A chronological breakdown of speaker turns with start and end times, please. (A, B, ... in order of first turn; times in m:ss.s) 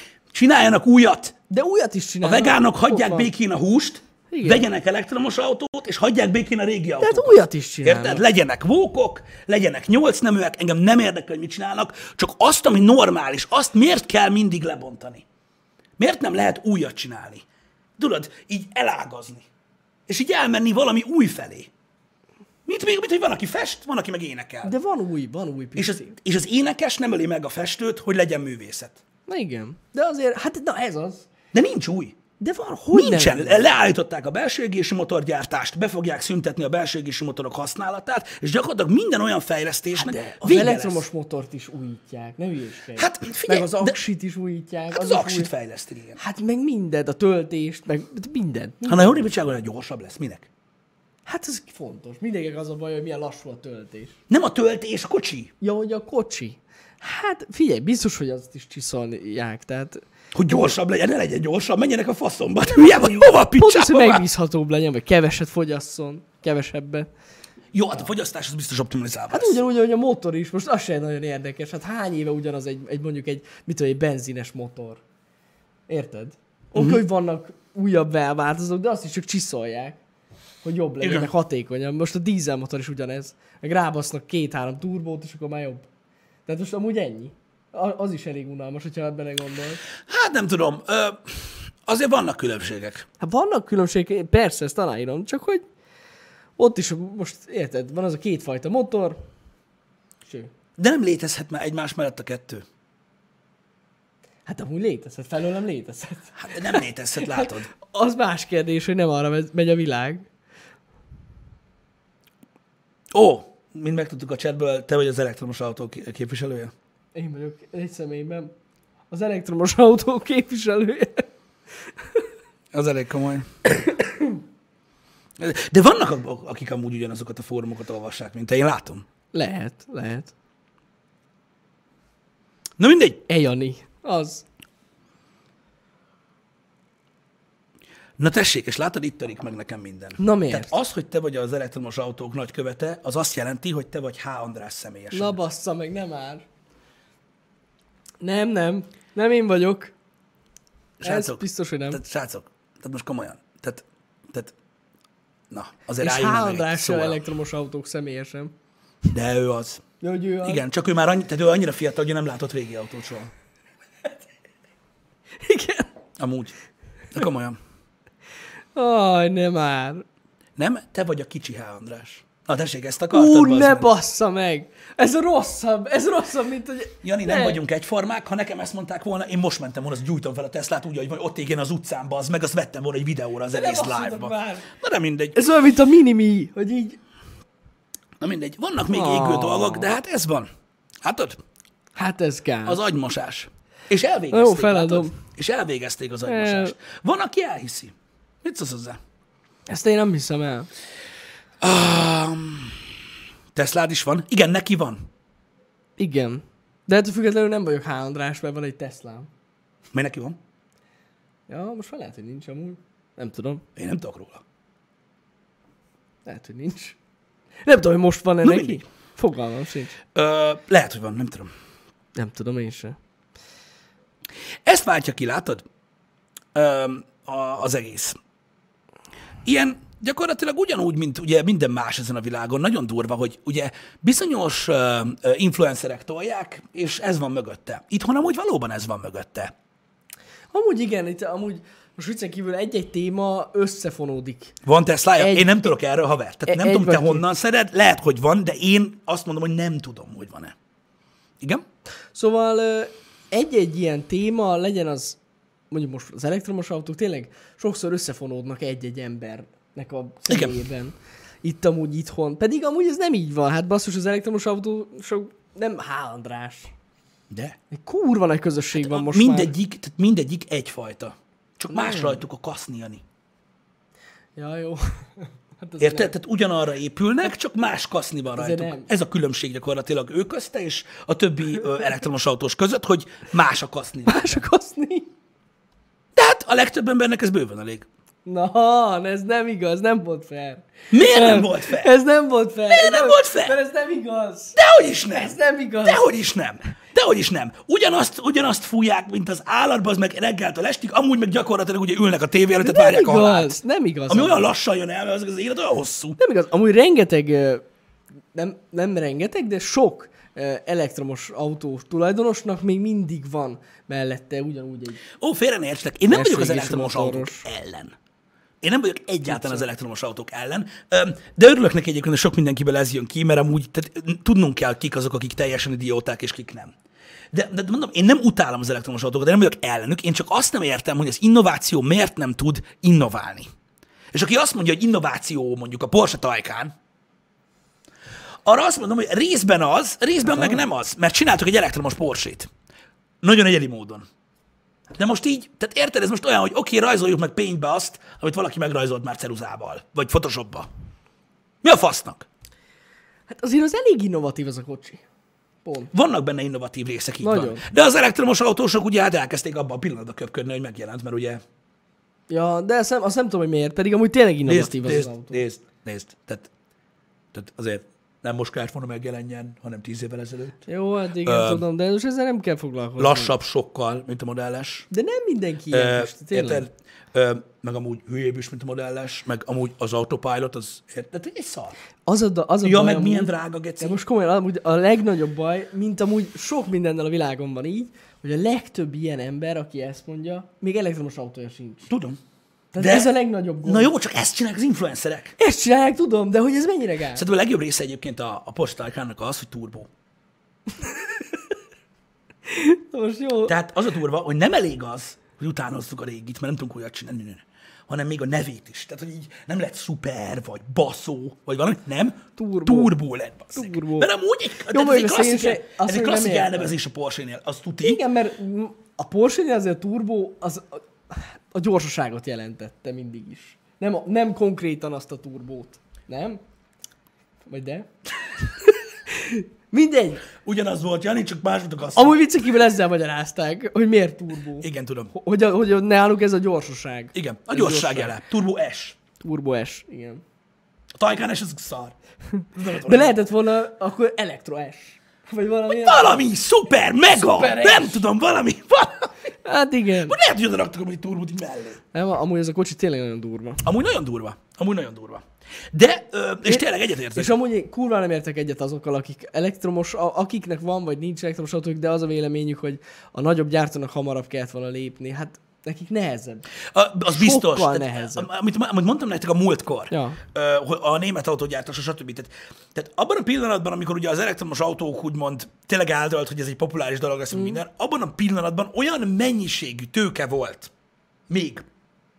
0:00.3-0:01.4 A
0:01.5-0:03.3 B
0:02.2-0:15.2 A
0:04.3-0:04.6 B
0:07.0-0:08.2 B
0:16.0-0:17.4 A
0:18.0-0:19.5 A
0:20.1-0:21.7 A
0:22.7-0:24.7 A
0:24.6-0:26.2 B
0:25.8-0:29.0 A
0:29.3-0:31.3 B
0:31.5-0:32.2 A
0:32.4-0:33.7 B
0:32.9-0:41.0 A
0:40.0-0:45.5 B
0:43.0-0:44.0 A
0:44.9-0:46.2 A
0:46.2-0:49.3 B
0:48.9-0:50.5 A
0:51.3-0:54.2 B
0:54.3-0:55.5 A
0:55.6-1:00.7 B
1:00.3-1:04.2 A
1:02.6-1:07.1 B
1:07.7-1:09.6 A
1:09.3-1:15.0 B
1:15.9-1:20.0 B
1:16.8-1:17.0 A
1:20.6-1:25.9 B
1:21.0-1:21.3 A
1:26.5-1:29.8 B
1:30.0-1:33.1 A
1:33.2-1:35.6 B
1:36.6-1:39.2 B
1:40.3-1:40.5 B
1:40.8-1:42.6 A
1:44.5-1:50.3 B
1:46.4-1:47.7 A
1:53.1-1:56.7 A
1:57.2-1:58.5 B
1:59.1-2:01.3 B
2:02.7-2:03.5 A
2:03.7-2:04.4 B
2:05.4-2:09.1 A
2:09.3-2:10.3 B
2:12.8-2:13.2 A
2:13.3-2:14.4 B
2:18.2-2:25.4 A
2:20.2-2:20.8 B
2:25.1-2:26.4 B
2:28.2-2:29.9 B
2:31.0-2:34.5 A
2:31.0-2:32.0 B
2:35.5-2:37.2 A
2:36.0-2:38.5 B
2:39.1-2:39.8 A
2:40.0-2:40.6 B
2:40.4-2:43.3 A
2:45.4-2:45.9 B
2:46.2-2:46.5 A
2:47.1-2:47.6 A
2:48.8-2:50.0 B
2:50.6-2:53.9 A
2:53.1-2:57.6 B
2:57.0-3:05.4 A
3:03.5-3:04.7 B
3:05.4-3:07.0 B
3:08.2-3:10.5 A
3:08.9-3:09.9 B
3:11.0-3:11.4 A
3:12.0-3:12.8 B
3:12.6-3:19.0 A
3:14.3-3:15.2 B
3:16.3-3:16.8 B
3:19.7-3:20.7 B
3:21.6-3:22.9 A
3:23.5-3:25.1 A
3:26.0-3:29.3 B
3:29.9-3:30.4 A
3:31.5-3:33.6 B
3:33.8-3:34.4 A
3:36.2-3:37.0 B
3:37.6-3:40.0 B
3:38.4-3:38.8 A
3:40.1-3:41.5 A
3:42.2-3:43.0 B
3:44.6-3:45.6 A
3:46.5-3:48.2 A
3:49.4-3:59.5 A
4:00.5-4:04.6 B
4:04.6-4:10.6 A
4:05.2-4:05.6 B
4:06.5-4:07.3 B
4:12.2-4:15.2 B
4:15.7-4:26.7 B
4:20.3-4:20.6 A
4:27.3-4:27.6 A
4:27.7-4:29.5 B
4:28.8-4:33.0 A
4:31.7-4:32.2 B
4:34.4-4:36.1 B
4:35.8-4:44.4 A
4:38.4-4:38.9 B
4:44.1-4:45.1 B
4:46.2-4:47.9 A
4:48.3-4:54.6 B
4:50.9-4:51.9 A
4:52.7-4:53.6 A
4:54.6-5:06.2 A
4:55.1-4:56.0 B
5:02.6-5:04.5 B
5:06.2-5:07.6 B
5:08.3-5:15.0 B
5:15.2-5:18.0 A
5:16.1-5:17.5 B
5:18.6-5:26.7 A
5:19.3-5:19.6 B
5:27.3-5:33.5 A
5:34.1-5:36.7 A
5:38.4-5:42.5 A
5:40.3-5:40.6 B
5:43.2-5:44.1 A
5:44.9-5:50.7 A
5:51.6-5:52.3 A
5:53.3-5:55.0 B
5:55.6-5:55.9 B
5:55.9-6:01.4 A
5:57.2-5:57.6 B
6:02.3-6:05.4 B
6:04.5-6:06.5 A
6:07.3-6:10.6 A
6:10.7-6:13.3 B
6:11.2-6:11.6 A
6:13.0-6:14.9 A
6:14.9-6:16.7 B
6:15.7-6:21.8 A
6:22.1-6:31.9 B
6:22.6-6:24.0 A
6:31.9-6:32.2 A
6:32.7-6:33.9 B
6:32.8-6:35.4 A
6:35.4-6:37.2 B
6:37.2-6:39.9 A
6:42.5-6:43.6 B
6:43.5-6:58.0 A
6:52.4-6:52.9 B
6:53.5-6:54.1 B
6:54.7-6:56.7 B
6:57.8-7:06.4 B
7:07.5-7:07.9 B
7:08.6-7:10.3 B
7:10.4-7:12.2 A
7:12.0-7:18.2 B
7:14.6-7:15.1 A
7:17.1-7:19.0 A
7:19.2-7:20.2 B
7:21.0-7:22.0 A
7:22.4-7:26.2 B
7:22.6-7:23.2 A
7:25.7-7:29.1 A
7:27.1-7:28.0 B
7:29.4-7:30.2 B
7:30.1-7:31.8 A
7:31.9-7:33.6 B
7:33.6-7:37.4 A
7:36.4-7:46.5 B
7:46.7-8:00.7 A
7:47.1-7:48.3 B
7:49.9-7:50.2 B
7:57.3-7:57.6 B
8:01.3-8:01.7 A